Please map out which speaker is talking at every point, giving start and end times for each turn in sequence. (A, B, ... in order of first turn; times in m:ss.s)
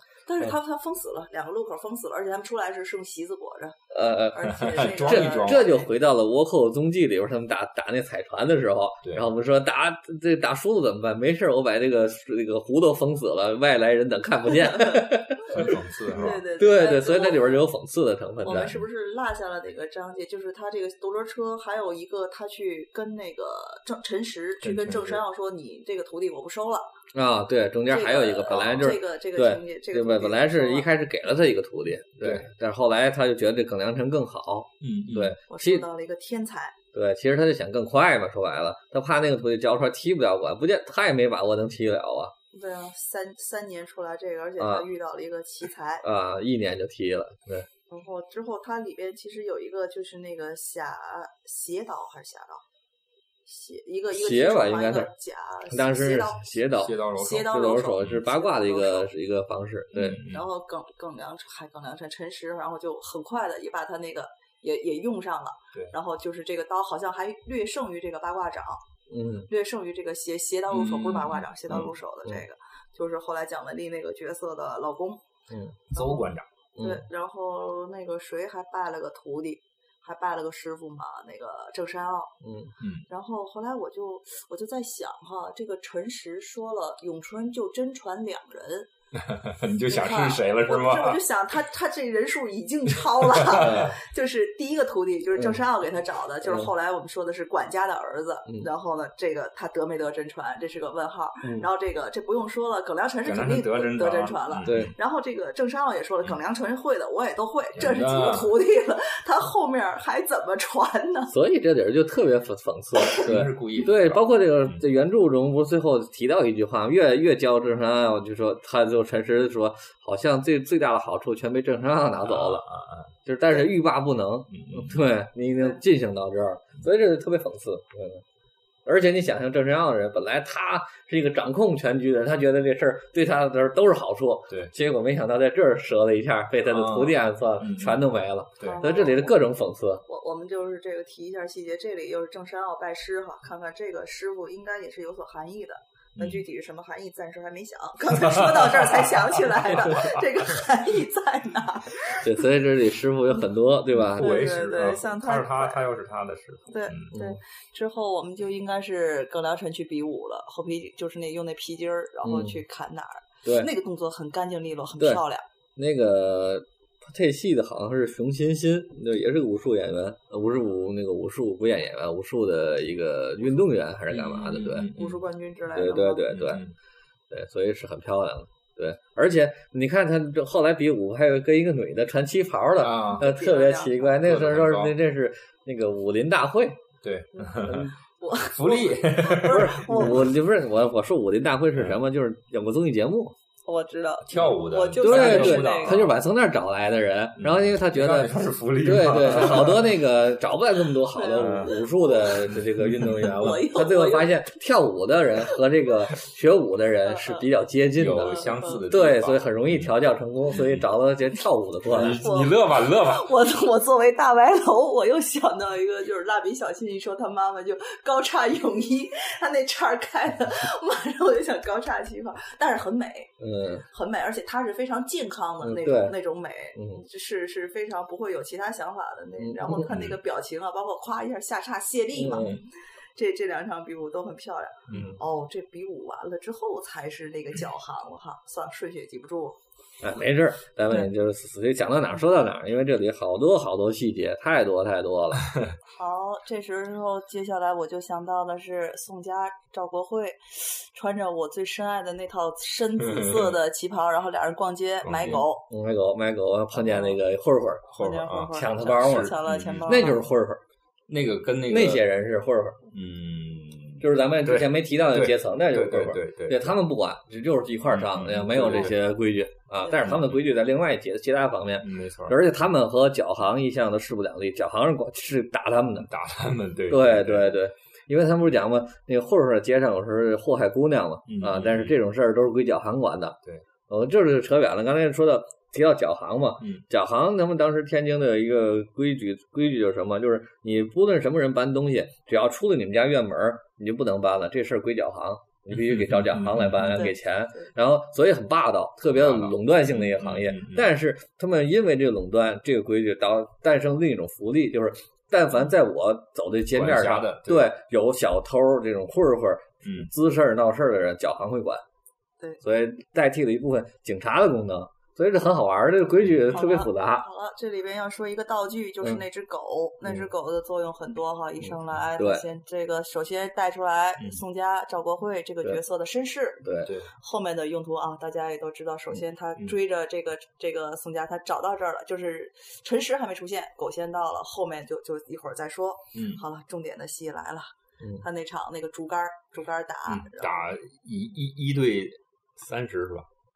0:00.2-0:03.8 A
0:03.9-0:18.8 B
0:04.3-0:05.9 A
0:04.5-0:05.7 C
0:14.5-0:17.6 A
0:15.5-0:16.4 C
0:18.4-0:26.9 A
0:18.5-0:18.8 C
0:24.6-0:25.2 C
0:27.1-0:35.8 B
0:27.9-0:30.9 A
0:28.5-0:29.0 C
0:32.2-0:32.5 C
0:34.8-0:35.4 C
0:35.5-0:36.8 A
0:36.9-0:42.3 B
0:42.5-0:46.0 A
0:44.6-0:44.9 B
0:46.0-0:47.7 B
0:47.9-0:52.6 A
0:53.4-0:56.4 A
0:54.1-0:55.1 B
0:55.7-1:00.2 B
0:56.7-0:58.2 C
0:57.1-0:59.1 A
0:59.9-1:00.4 C
1:00.2-1:08.8 A
1:09.1-1:09.5 B
1:09.5-1:15.2 A
1:10.7-1:11.9 C
1:15.5-1:15.8 B
1:15.9-1:16.5 C
1:15.9-1:22.3 A
1:16.8-1:17.0 B
1:22.4-1:22.7 B
1:22.8-1:23.0 C
1:23.1-1:28.9 A
1:29.1-1:31.2 C
1:29.9-1:51.3 A
1:33.1-1:33.9 C
1:33.6-1:33.9 B
1:36.4-1:36.7 B
1:43.2-1:44.9 C
1:44.6-1:44.9 B
1:47.8-1:48.5 C
1:51.3-2:02.6 B
1:53.2-1:54.8 C
2:02.2-2:03.1 C
2:03.2-2:08.2 B
2:04.5-2:05.0 C
2:08.8-2:20.0 B
2:16.6-2:18.0 C
2:18.6-2:19.1 C
2:18.6-2:19.3 A
2:20.0-2:32.3 A
2:26.2-2:26.4 C
2:28.1-2:30.2 C
2:32.1-2:34.4 B
2:33.9-2:37.1 C
2:34.1-2:35.8 A
2:36.7-2:45.4 A
2:42.2-2:42.6 B
2:45.8-2:54.9 B
2:54.1-2:55.2 C
2:54.9-2:56.3 A
2:55.7-2:56.6 B
2:56.3-2:56.7 C
2:57.3-3:06.8 B
3:02.8-3:03.2 C
3:03.1-3:04.2 A
3:04.2-3:05.0 C
3:07.0-3:07.9 C
3:07.3-3:10.3 A
3:08.5-3:10.3 C
3:09.5-3:13.3 B
3:11.7-3:12.0 C
3:13.6-3:16.0 A
3:14.2-3:16.2 C
3:15.0-3:32.2 B
3:17.4-3:20.0 C
3:21.1-3:22.5 A
3:21.3-3:21.8 C
3:22.4-3:23.6 C
3:23.2-3:24.3 A
3:27.0-3:27.4 A
3:27.9-3:29.9 C
3:28.1-3:28.9 A
3:30.5-3:30.9 C
3:31.9-3:33.3 C
3:32.2-3:43.3 A
3:43.4-3:43.8 B
3:43.8-3:52.5 A
3:45.6-3:46.2 B
3:46.7-3:47.0 B
3:49.4-3:50.0 B
3:49.8-3:50.2 C
3:52.2-3:52.6 B
3:52.3-3:52.6 C
3:53.1-3:59.6 A
3:54.9-3:55.2 C
3:54.9-3:55.2 B
4:00.0-4:05.5 B
4:05.9-4:15.6 A
4:13.0-4:13.5 C
4:15.0-4:15.4 C
4:15.3-4:17.8 B
4:16.8-4:17.2 A
4:17.9-4:20.2 C
4:18.0-4:20.2 A
4:18.5-4:20.6 B
4:21.1-4:22.0 C
4:21.7-4:22.8 B
4:22.9-4:26.8 C
4:24.0-4:36.1 B
4:27.9-4:29.0 C
4:30.0-4:30.4 C
4:31.8-4:32.4 C
4:36.0-4:37.6 C
4:36.9-4:43.4 B
4:41.3-4:42.0 C
4:43.9-5:11.8 B
4:55.7-4:57.0 C
4:56.8-4:57.7 A
4:59.1-5:00.9 C
5:06.7-5:07.7 C
5:09.8-5:10.1 C
5:12.6-5:17.2 B
5:16.5-5:37.7 A
5:22.2-5:22.4 B
5:26.6-5:26.9 B
5:26.8-5:27.1 C
5:36.1-5:36.4 C
5:38.2-5:40.7 A
5:40.1-5:43.3 C